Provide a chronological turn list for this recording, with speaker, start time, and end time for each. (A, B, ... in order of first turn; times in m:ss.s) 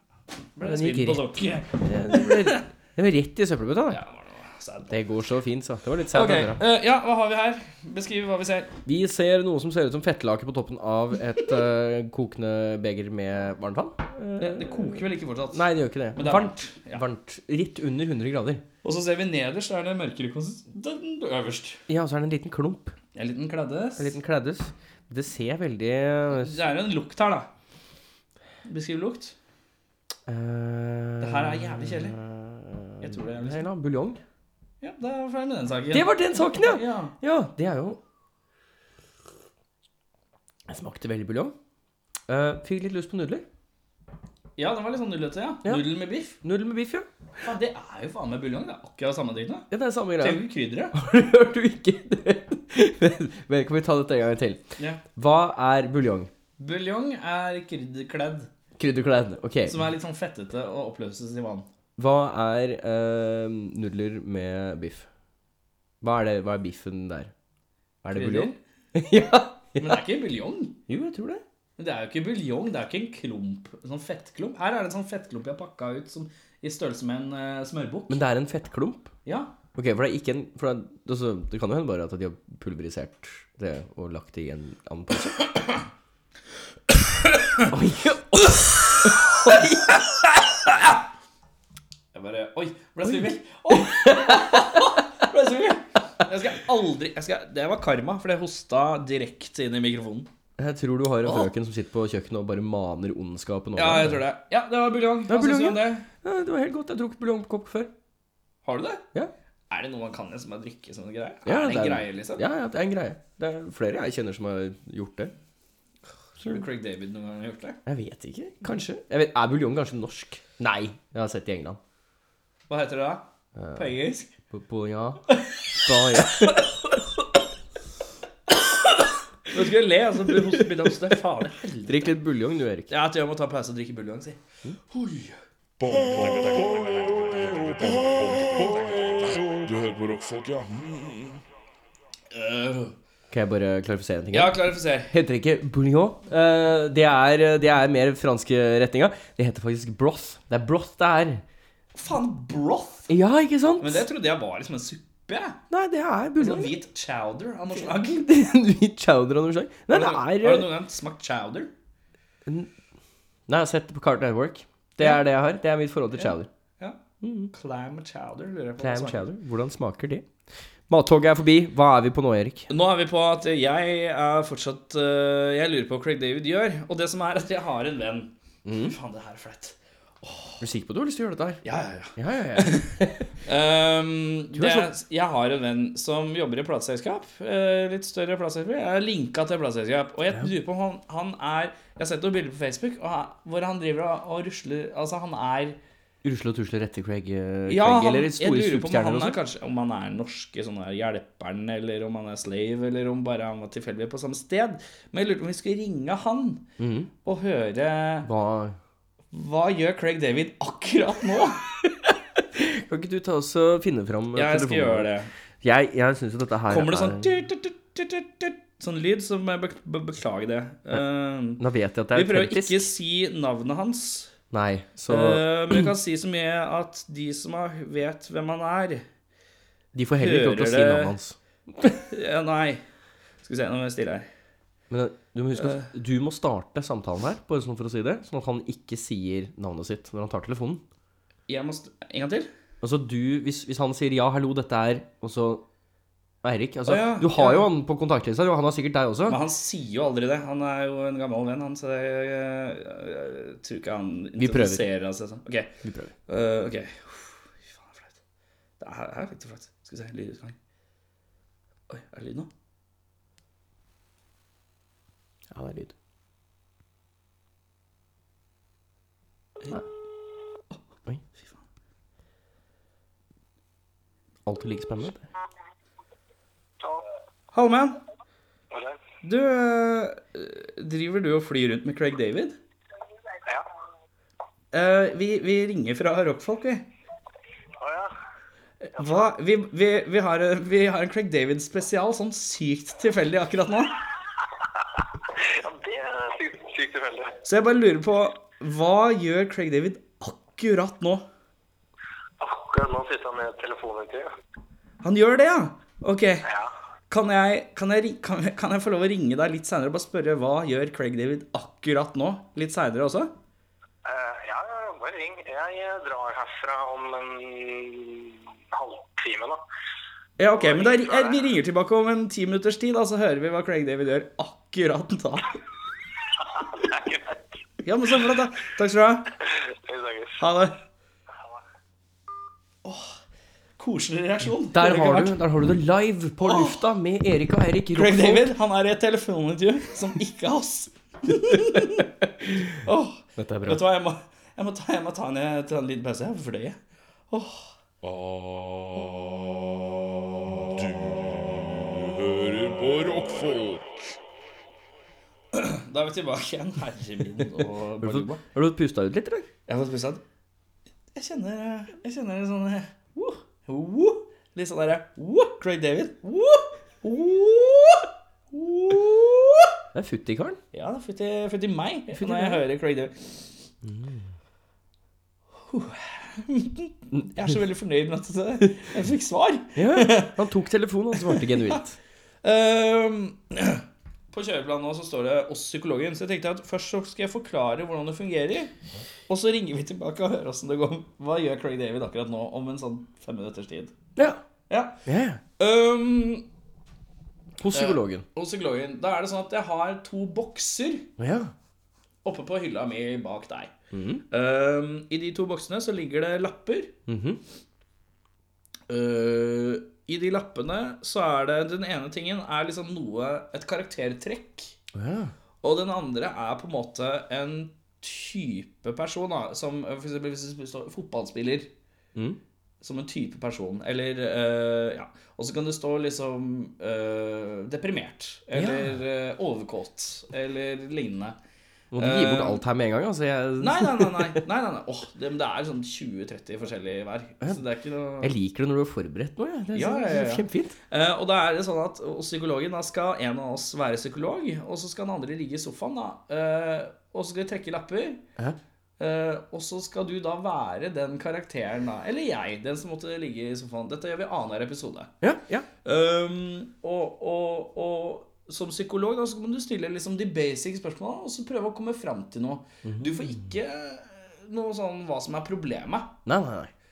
0:00.6-0:02.6 A
0:00.6-0:04.0 B
0:03.9-0:04.9 A
0:04.9-0:06.6 B
0:06.1-0:08.8 A
0:08.8-0:18.6 B
0:14.4-0:17.0 A
0:18.8-0:21.8 A
0:21.9-0:23.0 B
0:23.1-0:24.2 A
0:24.0-0:26.6 B
0:26.3-0:27.5 A
0:28.6-0:29.3 A
0:30.3-0:34.2 B
0:31.2-0:32.2 A
0:33.0-0:33.6 A
0:34.8-0:37.1 A
0:35.9-0:38.0 B
0:40.7-0:41.5 B
0:42.3-0:43.4 B
0:44.6-0:46.4 A
0:46.4-0:47.1 B
0:47.4-0:49.7 A
0:49.7-0:56.3 B
0:50.2-0:51.0 A
0:56.6-0:58.5 A
0:58.8-0:59.8 B
0:59.6-1:01.7 A
1:02.0-1:05.1 B
1:06.0-1:07.3 B
1:08.0-1:10.0 B
1:08.1-1:08.6 A
1:09.8-1:10.8 A
1:10.9-1:11.4 B
1:11.8-1:18.2 A
1:18.1-1:19.1 B
1:19.2-1:19.5 A
1:19.7-1:25.4 B
1:27.2-1:27.7 A
1:27.7-1:30.0 B
1:28.6-1:30.0 A
1:32.1-1:40.3 A
1:33.7-1:34.9 B
1:40.6-1:44.2 B
1:41.2-1:41.5 A
1:43.8-1:46.1 A
1:45.3-1:47.9 B
1:48.6-1:49.0 A
1:49.7-1:52.4 A
1:51.4-1:55.3 B
1:56.4-1:57.8 A
1:57.8-2:01.8 B
2:02.7-2:04.3 A
2:03.6-2:04.0 B
2:04.5-2:06.7 B
2:05.3-2:05.6 A
2:06.1-2:06.6 A
2:09.5-2:12.1 A
2:10.3-2:11.1 B
2:11.8-2:12.9 B
2:12.9-2:15.4 A
2:15.8-2:21.4 C
2:22.3-2:22.9 A
2:23.3-2:31.4 B
2:24.3-2:25.1 A
2:31.9-2:33.1 A
2:33.1-2:34.0 B
2:33.8-2:35.6 A
2:35.7-2:36.7 B
2:36.4-2:38.2 A
2:37.7-2:40.7 B
2:39.9-2:41.7 A
2:43.5-2:46.5 B
2:45.0-2:45.2 A
2:46.1-2:47.0 A
2:47.2-2:47.5 B
2:47.5-2:49.2 A
2:48.8-2:50.2 B
2:50.9-2:52.7 B
2:52.7-3:00.6 A
2:58.6-2:58.9 B
3:00.6-3:01.6 B
3:01.6-3:02.9 A
3:02.1-3:03.3 B
3:03.4-3:15.8 A
3:04.5-3:04.9 B
3:16.2-3:19.4 B
3:17.7-3:26.6 A
3:26.8-3:27.1 B
3:27.2-3:28.3 A
3:28.2-3:28.8 B
3:29.3-3:31.6 A
3:31.8-3:37.3 B
3:34.3-3:35.3 A
3:36.7-3:41.6 A
3:41.6-3:42.9 B
3:42.1-3:44.3 A
3:44.5-3:45.9 B
3:45.1-3:49.0 A
3:49.9-3:51.9 B
3:50.2-3:51.2 A
3:52.0-3:52.8 A
3:53.4-3:54.3 A
3:54.9-4:00.8 B
3:55.6-3:55.8 A
4:01.5-4:02.5 A
4:02.8-4:05.6 B
4:06.4-4:09.4 B
4:06.8-4:07.7 A
4:09.3-4:15.7 A
4:14.4-4:14.9 B
4:15.8-4:16.1 B
4:16.3-4:18.2 A
4:18.8-4:20.6 A
4:21.9-4:22.5 A
4:25.5-4:25.9 B
4:34.4-4:35.2 B
4:36.8-4:37.0 D
4:37.5-4:38.0 A
4:38.7-4:39.0 D
4:39.2-4:42.6 A
4:44.7-4:46.8 A
4:47.8-4:48.1 D
4:48.8-4:53.9 A
4:55.4-4:57.4 D
4:57.4-5:01.2 A
5:02.4-5:04.3 D
5:05.0-5:06.4 A
5:07.1-5:13.3 A
5:14.0-5:19.6 D
5:20.4-5:25.6 A
5:20.5-5:21.4 D
5:26.7-5:27.4 D
5:27.8-5:29.3 A
5:29.8-5:30.4 D
5:30.4-5:30.7 A
5:32.8-5:33.2 A
5:33.8-5:35.4 A
5:34.7-5:38.5 B
5:36.4-5:36.8 A
5:38.0-5:42.1 A
5:42.7-5:46.8 A
5:43.4-5:43.8 B
5:47.3-5:47.7 A
5:48.0-5:49.4 C
5:50.5-5:53.8 C
5:55.5-5:58.4 A
5:58.0-5:59.5 B
5:59.7-6:00.2 A
6:01.1-6:09.7 A
6:09.9-6:10.6 B
6:10.7-6:13.4 A
6:12.1-6:12.6 B
6:13.8-6:14.3 B
6:15.7-6:20.4 A
6:19.7-6:22.0 B
6:21.2-6:21.8 A
6:22.4-6:28.7 A
6:29.3-6:33.9 A
6:34.7-6:35.0 A
6:35.0-6:35.4 B
6:35.6-6:36.4 A
6:37.6-6:38.2 B
6:37.7-6:41.1 A
6:41.2-6:41.5 B
6:42.2-6:43.7 A
6:43.9-6:44.2 B
6:44.3-6:46.9 A
6:47.1-6:47.4 B
6:48.9-6:54.7 A
6:54.9-6:55.3 B
6:55.6-7:01.7 A
7:02.8-7:11.4 A
7:08.5-7:09.0 B
7:11.9-7:14.4 B
7:12.0-7:12.6 A
7:13.6-7:18.3 A
7:18.2-7:20.7 B
7:19.7-7:28.2 A
7:29.0-7:35.1 A
7:35.2-7:35.7 B
7:35.8-7:46.1 A
7:42.8-7:43.3 B
7:46.2-7:46.7 B